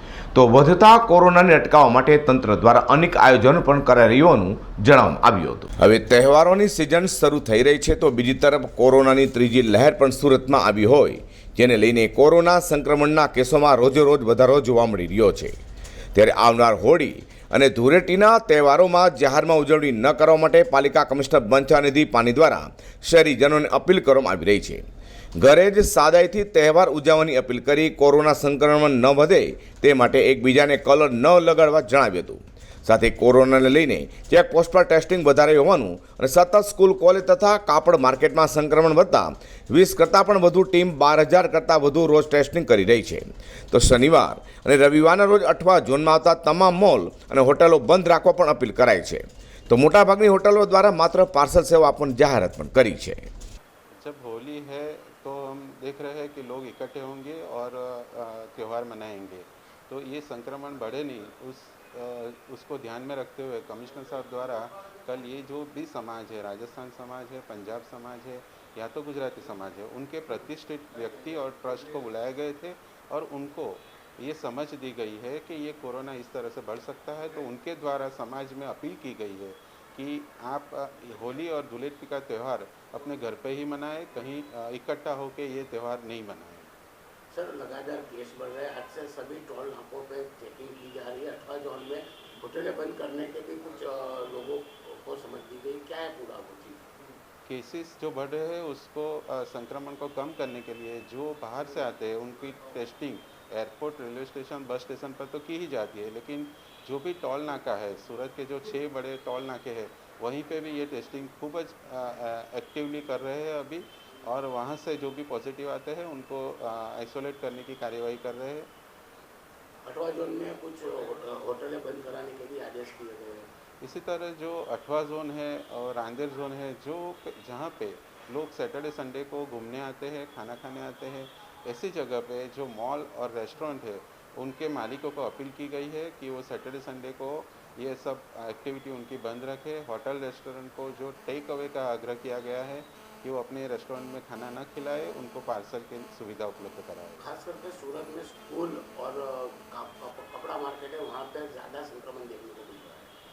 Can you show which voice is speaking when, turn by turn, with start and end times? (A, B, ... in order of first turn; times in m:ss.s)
0:00.3-0:15.6 A
0:16.1-0:24.8 A
0:25.4-0:53.3 A
0:54.0-1:26.7 B
1:27.3-1:36.9 C
1:37.4-1:58.7 B
1:59.8-2:03.5 C
2:03.8-2:27.3 B
2:27.2-2:33.1 C